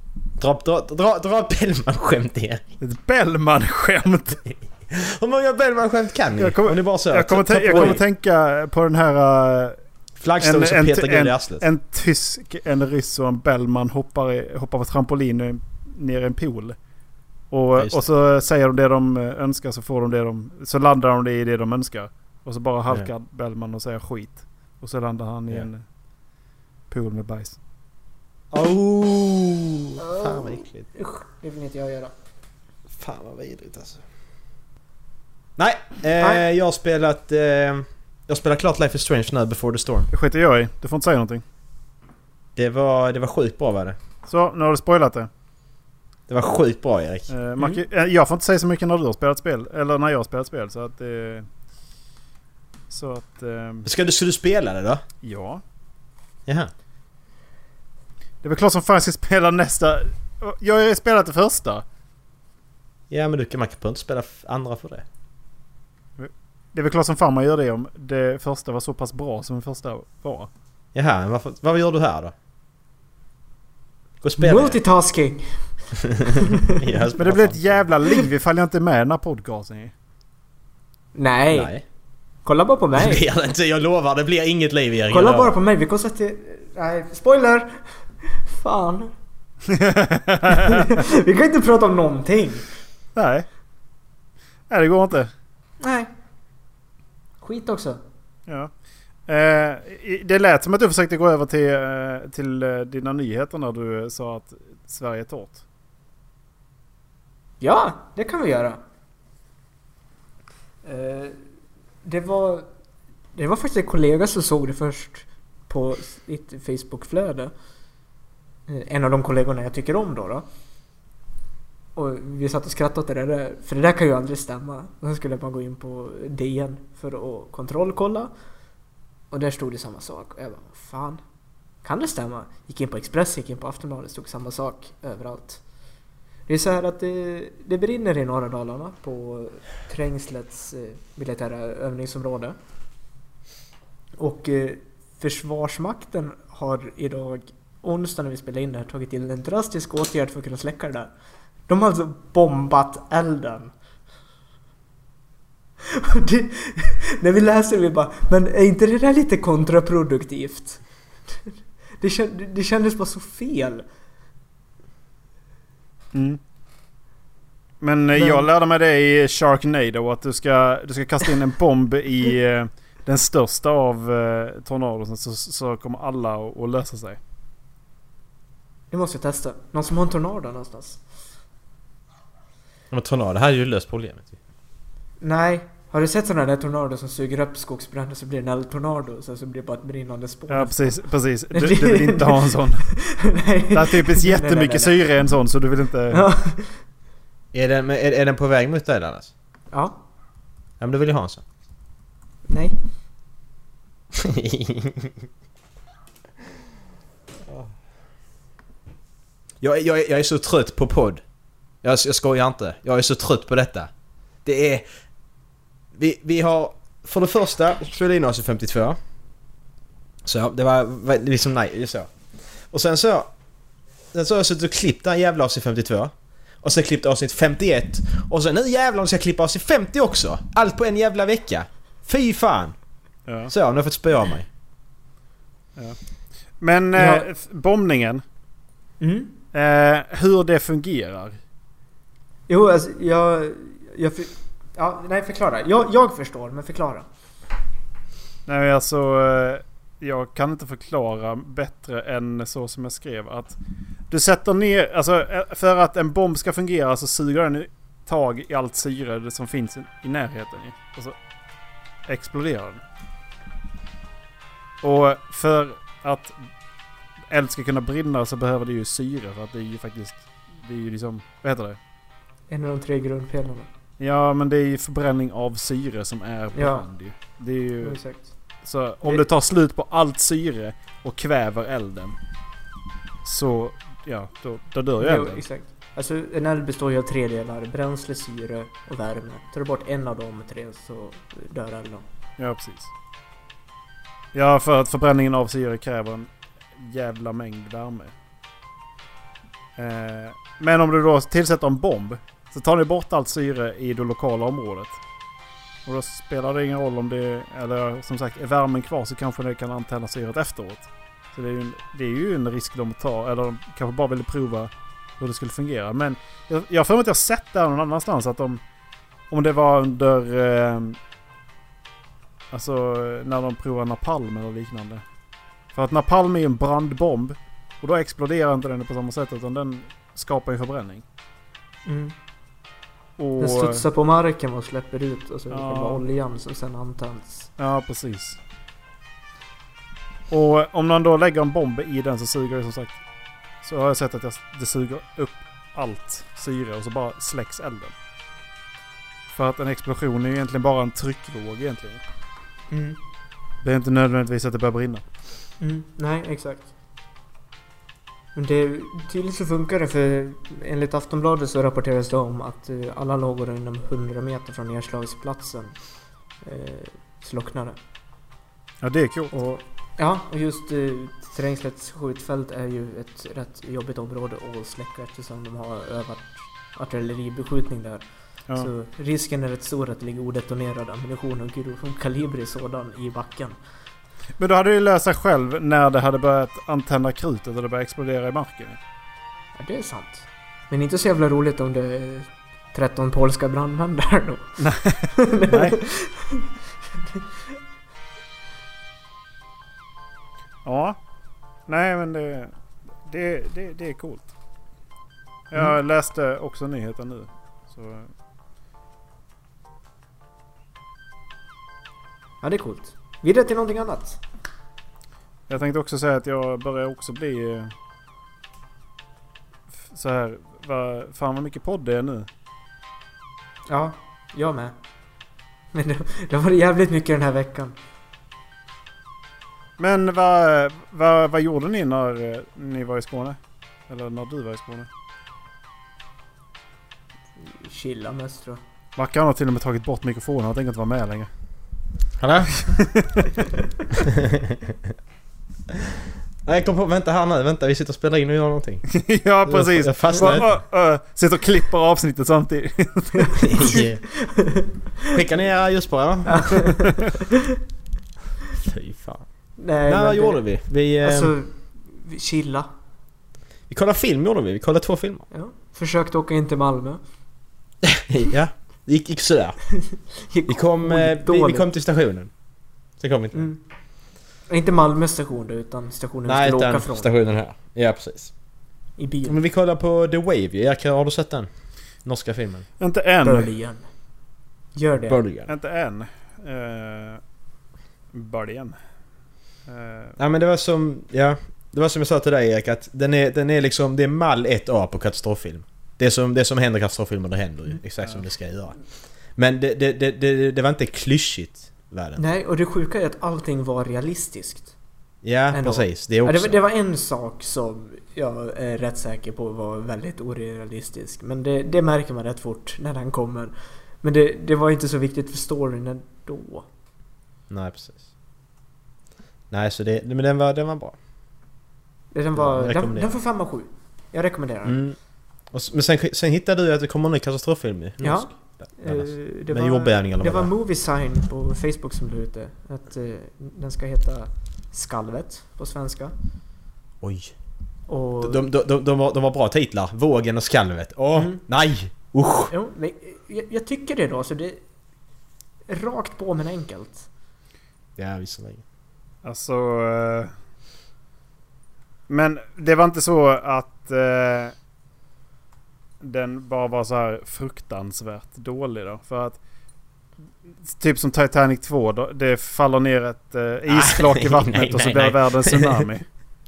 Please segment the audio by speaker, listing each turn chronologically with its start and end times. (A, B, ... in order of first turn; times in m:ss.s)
0:00.4-0:02.6 A
0:02.8-0:04.4 B
0:04.5-0:08.0 A
0:06.4-0:09.8 B
0:10.2-0:11.6 A
0:10.4-0:16.8 B
0:17.5-0:25.8 B
0:17.8-0:18.0 A
0:26.9-0:27.6 B
0:28.5-0:30.9 A
0:30.0-0:32.1 C
0:32.9-0:34.0 A
0:35.6-0:40.1 A
0:36.2-0:36.4 C
0:40.1-0:41.4 B
0:42.6-0:44.0 A
0:44.3-0:45.3 B
0:46.3-0:47.3 A
0:47.3-0:51.5 B
0:47.6-0:47.8 C
0:52.9-0:53.9 B
0:53.8-0:55.0 A
0:55.2-0:55.6 B
0:58.4-1:01.8 B
1:03.1-1:05.0 A
1:06.2-1:10.5 B
1:10.9-1:12.3 A
1:14.2-1:14.8 A
1:14.4-1:15.7 C
1:16.4-1:16.7 C
1:16.7-1:17.8 A
1:17.2-1:19.9 B
1:21.1-1:21.7 C
1:21.5-1:21.8 A
1:22.4-1:23.2 C
1:23.0-1:25.6 A
1:25.1-1:29.1 C
1:29.7-1:30.8 B
1:30.5-1:32.6 C
1:33.2-1:33.4 B
1:34.7-1:35.3 B
1:35.8-1:36.1 C
1:37.4-1:38.0 C
1:39.3-1:45.6 B
1:47.6-1:48.8 C
1:50.8-1:51.4 C
1:52.0-1:52.6 C
1:53.3-1:57.5 C
1:58.7-2:00.4 C
2:02.0-2:08.3 C
2:09.3-2:11.2 C
2:11.8-2:15.6 C
2:16.5-2:22.6 C
2:24.2-2:31.1 C
2:31.7-2:33.7 C
2:35.8-2:40.8 C
2:41.4-2:43.8 C
2:46.1-2:46.4 B
2:47.8-2:57.2 B
2:48.1-2:48.5 C
2:58.9-3:01.0 C
3:02.9-3:04.3 A
3:05.2-3:15.0 C
3:10.5-3:12.9 B
3:13.7-3:16.2 B
3:16.1-3:16.8 C
3:17.5-3:19.3 A
3:19.7-3:20.0 C
3:20.8-3:21.4 A
3:22.5-3:22.8 C
3:24.1-3:25.2 A
3:29.6-3:31.2 A
3:31.8-3:33.9 A
3:34.4-3:34.8 A
3:35.9-3:39.0 A
3:40.2-3:42.1 A
3:42.7-3:43.3 A
3:44.1-3:52.7 A
3:53.3-3:53.5 B
3:53.5-3:54.5 A
3:56.6-3:58.2 B
3:56.9-3:57.2 C
3:59.0-3:59.3 C
3:59.5-4:01.4 B
4:02.5-4:07.0 C
4:08.5-4:13.6 B
4:14.1-4:21.1 B
4:22.1-4:22.8 B
4:24.8-4:26.3 B
4:27.3-4:31.8 B
4:32.5-4:33.7 C
4:34.0-4:38.0 B
4:36.5-4:36.8 C
4:37.8-4:38.3 C
4:38.6-4:42.2 B
4:43.2-4:45.4 B
4:45.0-4:52.0 C
4:52.4-4:52.9 B
4:54.3-4:58.1 B
4:59.8-5:05.0 B
5:05.8-5:18.6 B
5:19.3-5:21.0 B
5:22.5-5:25.0 B
5:25.7-5:31.0 B
5:31.8-5:32.1 C
5:33.2-5:33.8 B
5:33.4-5:37.5 C
5:35.5-5:36.0 B
5:37.6-5:38.4 B
5:40.3-5:43.0 B
5:43.6-5:47.9 B
5:49.3-5:52.0 B
5:52.7-5:53.0 C
5:53.6-5:55.0 B
5:55.6-5:56.7 C
5:58.3-6:05.7 C
6:06.4-6:07.8 C
6:08.8-6:09.3 B
6:09.3-6:18.0 C
6:18.5-6:23.6 C
6:24.4-6:28.8 B
6:29.6-6:34.6 C
6:34.6-6:35.8 B
6:35.1-6:36.5 C
6:40.6-6:41.0 B
6:41.7-6:42.5 B
6:43.0-6:44.3 B
6:45.5-6:48.1 B
6:52.4-6:54.2 C
6:55.5-6:57.7 B
6:59.8-7:02.3 B
7:03.7-7:04.7 C
7:05.7-7:07.7 C
7:09.8-7:13.4 B
7:13.9-7:14.9 B
7:17.4-7:18.6 C
7:19.0-7:21.3 B
7:22.2-7:22.6 A
7:22.6-7:23.2 B
7:24.0-7:24.9 A
7:26.4-7:28.8 A
7:28.9-7:33.4 B
7:29.5-7:30.5 A
7:33.4-7:34.0 A
7:33.6-7:34.7 C
7:35.1-7:36.7 A
7:36.3-7:37.2 C
7:38.6-7:39.2 A
7:39.6-7:40.4 C
7:39.8-7:41.3 A
7:41.0-7:42.7 C
7:43.7-7:45.2 A
7:45.3-7:47.0 C
7:47.8-7:49.6 A
7:50.3-7:51.7 C
7:50.5-7:52.3 A
7:53.0-7:53.5 A
7:53.3-7:53.6 C
7:54.5-7:57.1 C
7:56.3-7:58.3 A
7:59.0-7:59.4 C
7:59.2-8:01.5 A
8:02.0-8:02.6 A
8:02.8-8:03.5 B
8:03.2-8:03.8 C
8:04.7-8:05.2 C
8:05.1-8:05.5 A
8:05.5-8:07.2 B
8:08.1-8:08.8 B
8:09.7-8:10.2 B
8:10.2-8:18.8 A
8:19.4-8:22.3 A
8:22.2-8:24.7 C
8:25.2-8:26.6 A
8:25.5-8:36.7 C
8:37.5-8:38.0 A
8:39.5-8:41.0 A
8:42.1-8:44.8 C
8:42.3-8:43.2 A
8:44.6-8:45.0 A
8:45.5-8:50.5 A
8:48.0-8:56.1 C
8:57.0-8:57.3 A
8:57.9-8:58.4 C
8:58.2-9:02.5 A
9:01.2-9:01.4 C
9:02.5-9:04.6 C
9:05.7-9:07.1 C
9:08.0-9:08.6 A
9:09.2-9:10.3 B
9:12.1-9:14.5 B
9:16.0-9:19.4 B
9:20.6-9:26.0 B
9:23.6-9:25.9 A